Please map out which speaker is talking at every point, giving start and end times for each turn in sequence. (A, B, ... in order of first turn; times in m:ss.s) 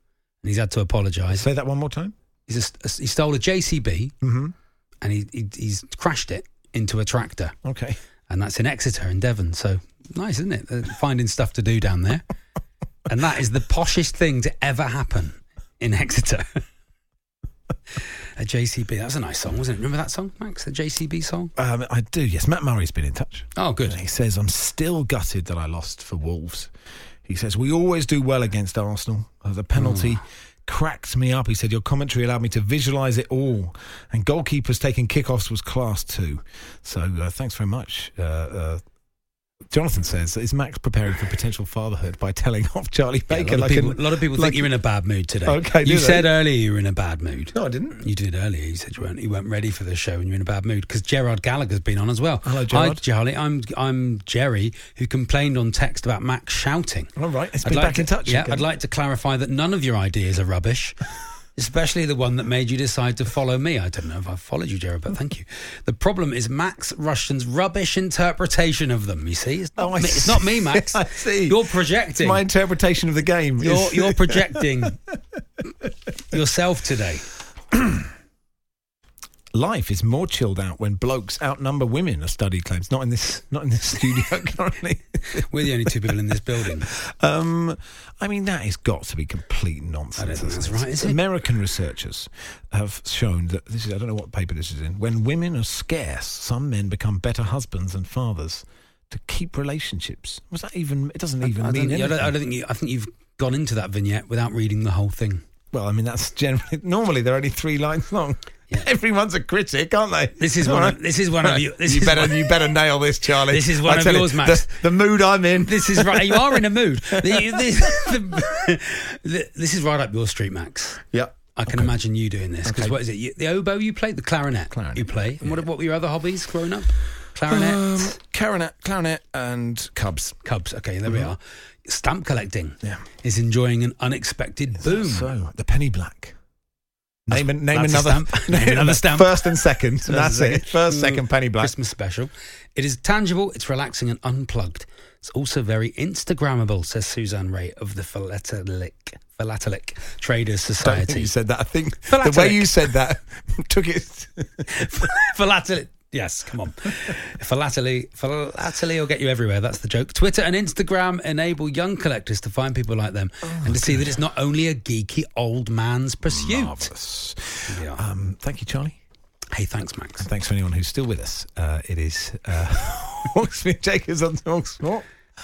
0:00.4-0:01.5 A
0:01.3-0:02.1 B
0:02.5-0:04.2 A
0:04.2-0:04.5 B
0:05.0-0:07.5 A
0:07.6-0:08.0 B
0:08.3-0:12.2 A
0:13.1-0:16.6 A
0:18.4-0:21.5 A
0:21.6-0:26.7 B
0:23.6-0:24.0 A
0:27.2-0:38.8 B
0:29.8-0:30.2 A
0:39.7-0:44.7 B
0:43.3-0:57.1 A
0:45.4-0:46.3 B
0:47.5-0:48.0 B
0:52.4-0:53.0 B
0:57.2-0:58.6 B
0:57.6-1:01.0 A
1:01.6-1:12.4 A
1:09.8-1:14.6 B
1:13.6-1:15.0 A
1:16.3-1:17.3 A
1:17.7-1:18.1 B
1:19.5-1:26.1 B
1:25.5-1:26.9 A
1:26.8-1:42.3 B
1:30.2-1:31.2 A
1:41.4-1:45.4 A
1:45.7-1:58.2 B
1:50.4-1:52.5 A
1:53.5-1:54.8 A
1:55.6-2:01.0 A
2:01.1-2:01.9 B
2:01.5-2:08.2 A
2:02.6-2:03.0 B
2:04.7-2:05.6 B
2:07.5-2:10.4 B
2:10.4-2:15.3 A
2:11.1-2:11.3 B
2:14.8-2:16.4 B
2:17.3-2:21.7 B
2:17.3-2:31.3 A
2:30.8-2:35.1 B
2:32.1-2:32.7 A
2:34.7-2:46.9 A
2:43.4-2:44.2 B
2:46.2-2:49.0 B
2:47.7-2:48.0 A
2:49.5-2:50.3 A
2:50.2-2:55.0 B